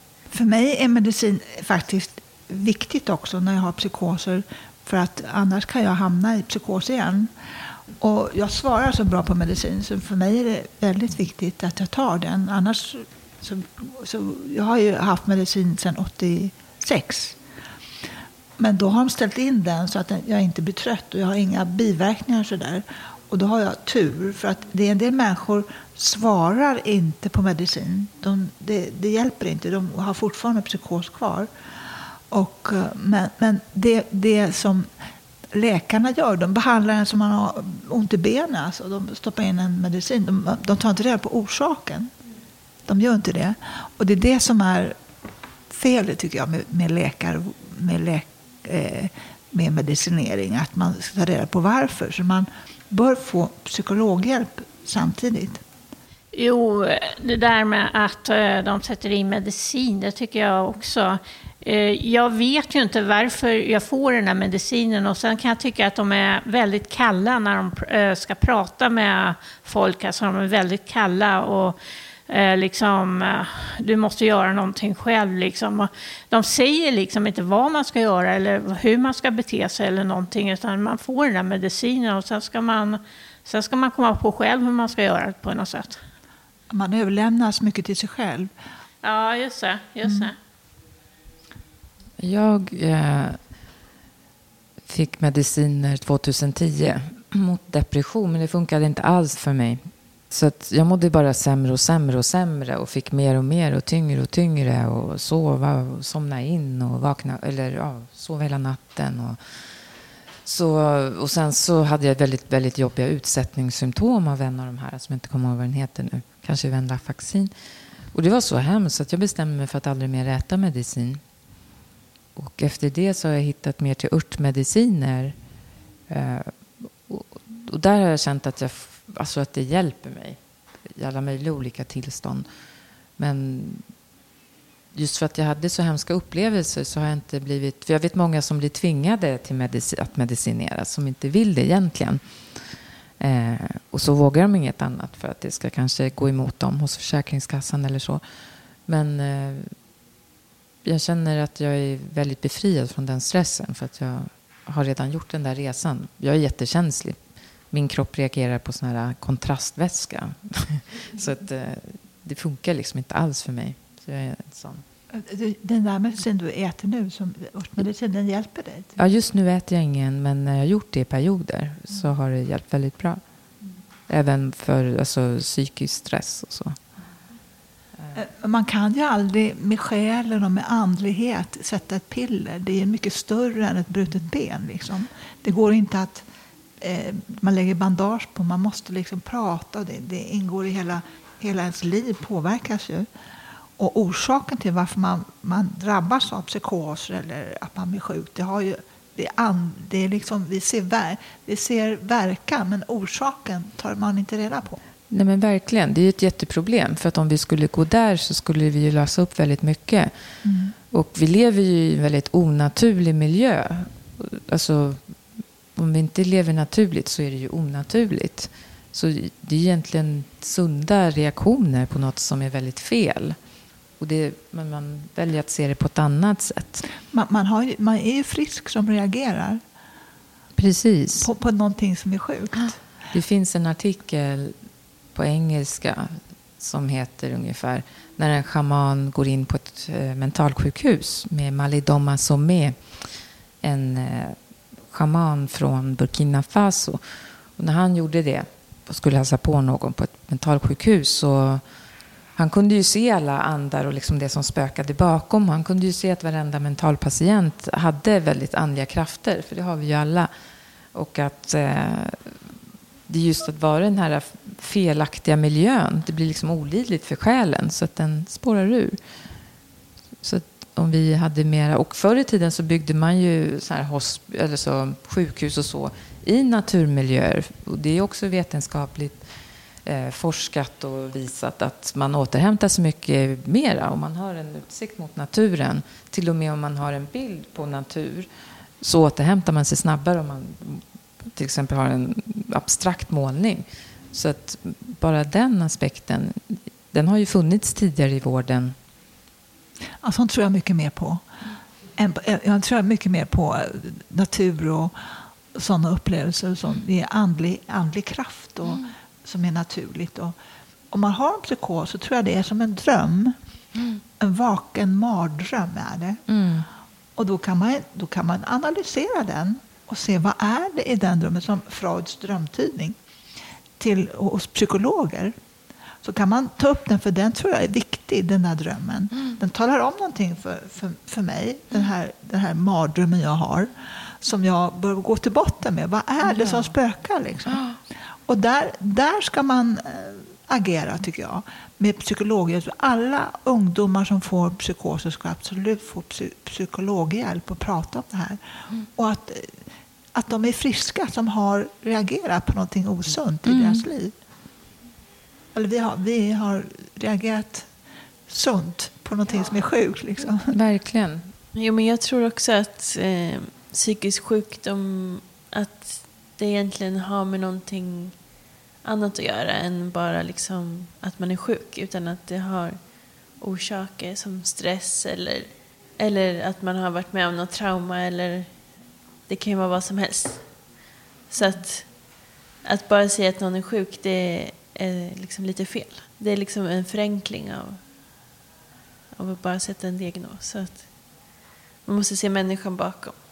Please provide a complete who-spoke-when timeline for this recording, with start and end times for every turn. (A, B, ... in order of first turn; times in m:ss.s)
0:00.3-0:07.3 A
0:08.0-0:17.4 A
0:18.6-0:31.5 A
0:32.3-0:34.9 A
0:35.5-0:42.1 A
0:42.8-0:45.0 A
0:45.7-0:55.6 A
0:56.3-1:11.8 B
1:12.3-1:26.0 B
1:26.7-1:28.5 A
1:29.0-1:30.3 B
1:30.0-1:30.3 A
1:32.2-1:33.4 C
1:34.9-1:49.4 C
1:50.4-1:57.5 C
1:58.1-2:01.2 C
2:02.4-2:05.3 C
2:06.1-2:10.4 C
2:10.9-2:12.4 C
2:13.2-2:13.8 C
2:14.9-2:22.2 C
2:23.2-2:28.2 C
2:28.9-2:29.7 C
2:30.8-2:37.2 C
2:37.7-2:44.8 C
2:45.1-2:48.9 A
2:49.0-2:53.2 C
2:54.1-2:56.8 C
2:58.1-3:06.2 A
3:06.8-3:13.1 A
3:13.8-3:24.8 A
3:25.1-3:30.1 C
3:30.4-3:30.7 A
3:30.9-3:35.0 C
3:35.8-3:43.4 C
3:44.0-3:46.8 C
3:47.1-3:49.6 A
3:50.6-3:51.3 C
3:51.2-3:52.8 A
3:53.1-3:54.6 C
3:55.1-4:03.0 C
4:03.6-4:04.4 C
4:04.9-4:07.0 C
4:07.6-4:11.6 C
4:12.4-4:20.3 C
4:20.9-4:22.3 C
4:23.1-4:29.0 C
4:30.2-4:39.2 C
4:39.8-4:48.3 C
4:48.8-4:50.8 C
4:51.3-4:58.8 C
5:00.0-5:01.2 A
5:02.0-5:04.9 A
5:05.5-5:10.3 A
5:10.9-5:13.3 A
5:14.2-5:16.2 A
5:16.3-5:16.6 C
5:17.2-5:23.0 A
5:23.8-5:25.3 A
5:26.0-5:33.7 A
5:34.2-5:37.7 A
5:36.3-5:36.7 C
5:38.3-5:48.4 A
5:48.9-5:49.6 A
5:50.1-5:54.1 A
5:53.4-5:53.8 C
5:55.5-5:57.7 A
5:58.3-6:00.5 A
6:00.5-6:01.3 C
6:01.6-6:08.1 D
6:08.8-6:18.5 D
6:19.3-6:20.8 D
6:21.3-6:22.0 D
6:22.6-6:27.8 D
6:29.1-6:30.9 D
6:31.8-6:33.2 D